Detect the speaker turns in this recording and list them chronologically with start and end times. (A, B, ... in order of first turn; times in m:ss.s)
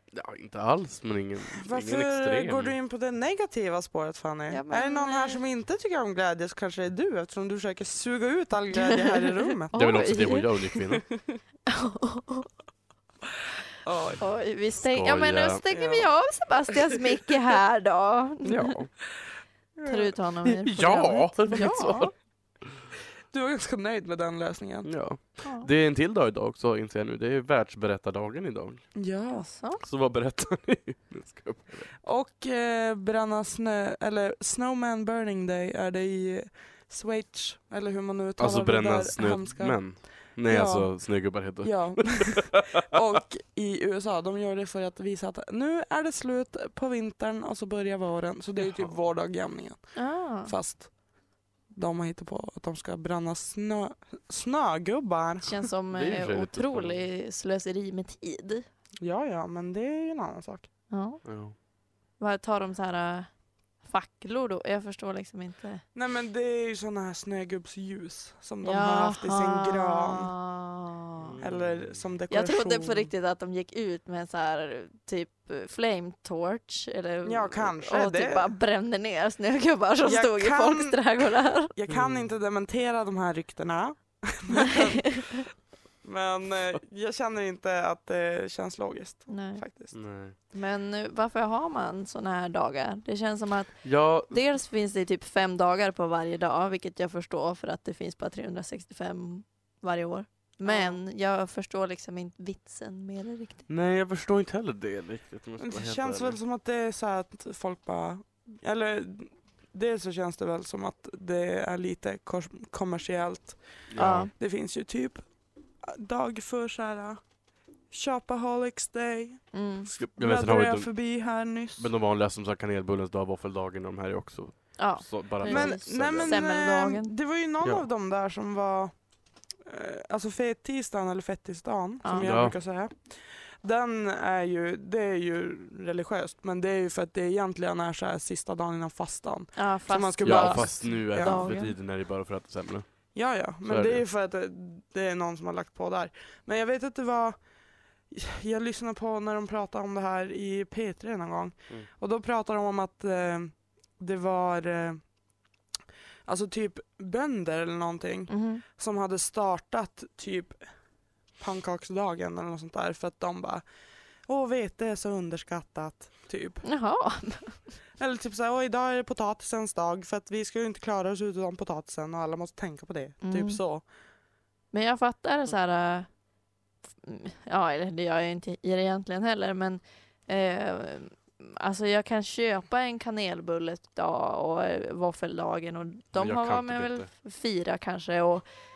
0:00.1-0:02.7 A
0:01.6-0:09.7 B
0:04.5-0:05.4 C
0:09.7-0:10.5 C
0:09.7-0:11.1 A
0:11.7-0:12.5 C
0:13.8-0:14.2 B
0:14.2-0:18.7 C
0:14.8-0:15.6 A
0:15.7-0:16.1 B
0:18.4-0:18.9 A
0:19.8-0:20.1 B
0:19.8-0:22.1 C
0:20.4-0:22.1 A
0:21.5-0:21.7 B
0:23.3-0:24.9 B
0:24.8-0:28.8 A
0:25.4-0:25.7 C
0:28.9-0:29.4 B
0:29.3-0:29.8 C
0:29.8-0:32.0 A
0:32.0-0:50.9 B
0:38.4-0:42.8 A
0:48.6-0:48.9 A
0:49.9-0:50.5 C
0:51.7-0:55.5 B
0:55.4-0:58.7 C
0:55.9-0:57.0 A
0:59.0-1:00.7 B
1:00.9-1:01.2 C
1:01.2-1:01.5 A
1:02.2-1:03.3 C
1:03.8-1:05.8 C
1:05.9-1:10.3 B
1:08.6-1:11.3 C
1:11.2-1:12.0 A
1:11.4-1:13.1 B
1:12.3-1:21.7 C
1:17.2-1:18.5 B
1:20.0-1:25.5 B
1:21.9-1:22.3 A
1:24.5-1:25.4 C
1:26.0-1:30.0 B
1:29.3-1:29.6 C
1:29.9-1:30.3 A
1:30.5-1:43.6 C
1:33.8-1:34.3 A
1:40.6-1:41.0 B
1:43.7-1:46.4 A
1:45.6-1:53.6 B
1:53.9-1:54.3 A
1:54.0-1:54.3 C
1:54.3-1:55.2 B
1:55.8-1:57.2 B
1:57.9-2:01.9 B
1:59.5-1:59.9 C
2:00.0-2:01.0 A
2:01.8-2:06.4 A
2:04.8-2:07.1 C
2:05.4-2:08.9 B
2:09.6-2:21.5 B
2:12.0-2:12.3 C
2:12.2-2:12.5 A
2:19.6-2:21.7 C
2:20.2-2:22.9 A
2:23.1-2:27.4 B
2:23.6-2:24.0 A
2:28.1-2:35.0 B
2:36.2-2:40.6 B
2:38.3-2:38.6 C
2:41.4-2:43.6 B
2:44.2-2:46.6 B
2:46.6-2:47.6 C
2:48.0-2:53.8 B
2:53.2-2:53.6 C
2:54.7-2:56.1 C
2:57.0-3:08.4 C
3:06.1-3:07.1 A